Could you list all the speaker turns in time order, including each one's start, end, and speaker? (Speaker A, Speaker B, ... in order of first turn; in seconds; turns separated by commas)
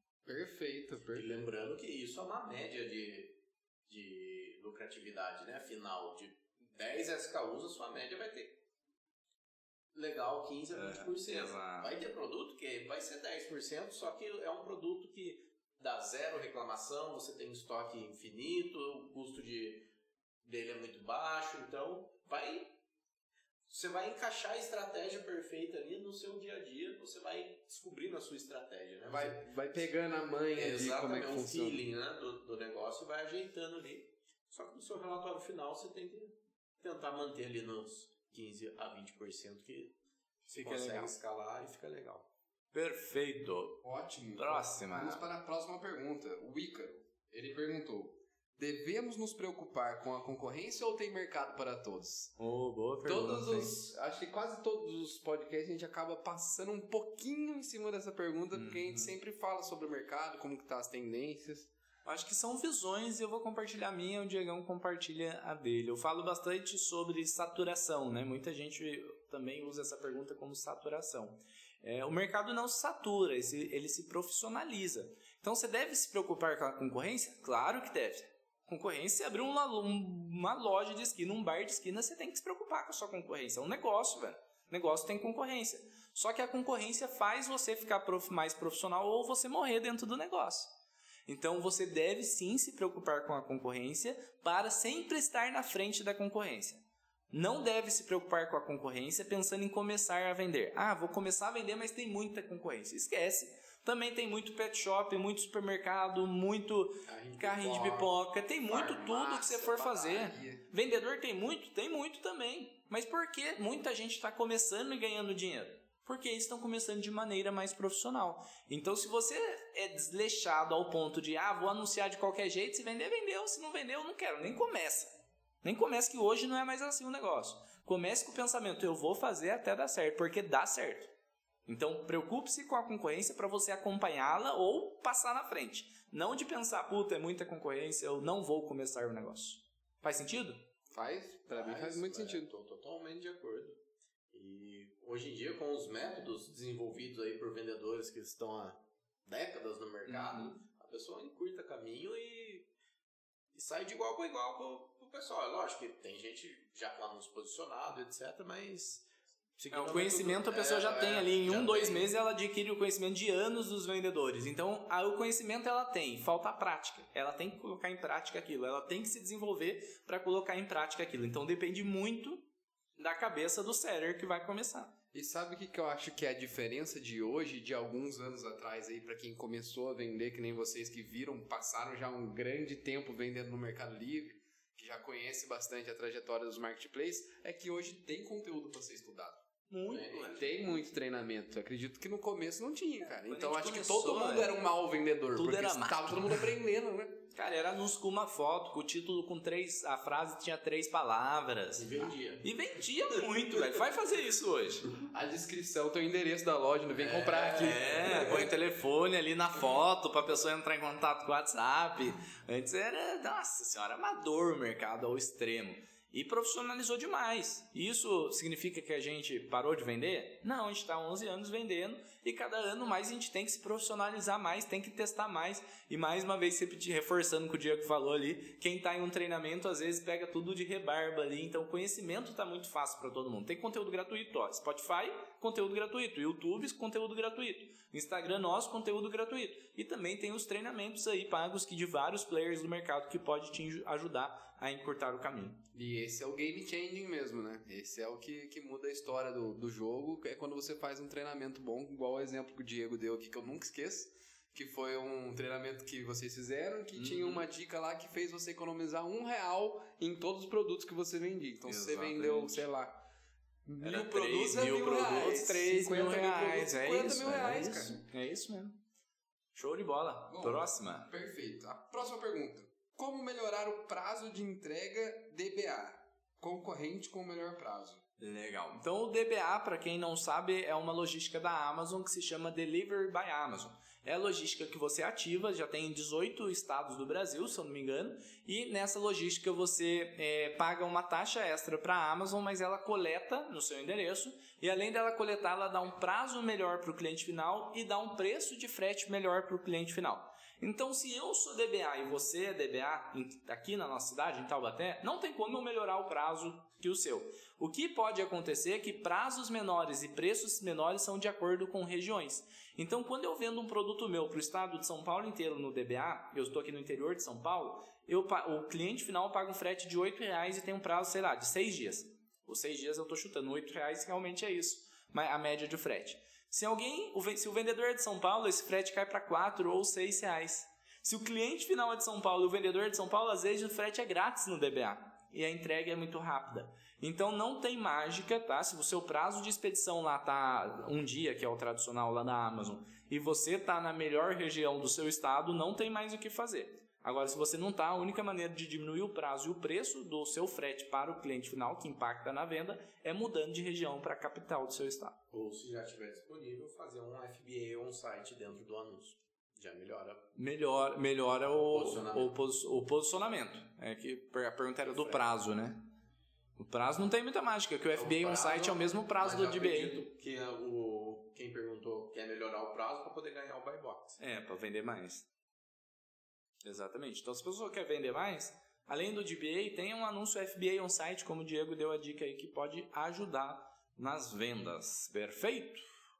Speaker A: 0.2-1.3, Speaker B: 1.1-8.6, Speaker B: 9.9-19.9, Speaker C: 10.7-11.9, Speaker B: 20.4-22.7, Speaker B: 23.7-29.8, Speaker A: 29.1-31.8, Speaker B: 30.5-39.9, Speaker B: 40.5-42.3, Speaker C: 40.5-41.1, Speaker C: 42.7-43.8, Speaker A: 43.8-52.4, Speaker C: 44.4-45.2, Speaker C: 52.4-53.7, Speaker A: 53.0-61.7, Speaker C: 58.5-59.1, Speaker C: 62.0-90.7, Speaker C: 91.3-131.1, Speaker B: 107.0-108.2, Speaker A: 108.7-110.7, Speaker C: 131.7-140.6, Speaker A: 140.9-142.5, Speaker B: 141.5-143.8, Speaker B: 144.3-152.7, Speaker C: 150.1-150.5, Speaker B: 153.5-162.1, Speaker C: 159.7-172.4, Speaker C: 173.0-174.9, Speaker A: 175.1-189.4, Speaker C: 189.7-190.5, Speaker B: 189.9-190.5, Speaker A: 190.2-197.2, Speaker C: 193.1-194.6, Speaker C: 195.3-196.4, Speaker C: 197.3-204.9, Speaker B: 201.7-202.5, Speaker A: 205.1-208.4, Speaker B: 206.9-208.5, Speaker C: 207.6-245.6, Speaker A: 245.7-263.0, Speaker C: 256.9-257.4, Speaker C: 261.6-262.6, Speaker A: 263.6-268.0, Speaker C: 263.8-268.8, Speaker C: 269.5-271.1, Speaker A: 270.3-278.0, Speaker C: 278.2-355.2, Speaker B: 355.3-360.3, Speaker C: 360.4-365.8, Speaker B: 361.6-362.3, Speaker B: 364.8-365.3, Speaker C: 366.6-369.9, Speaker B: 367.9-374.2, Speaker C: 374.2-375.2, Speaker C: 376.6-386.0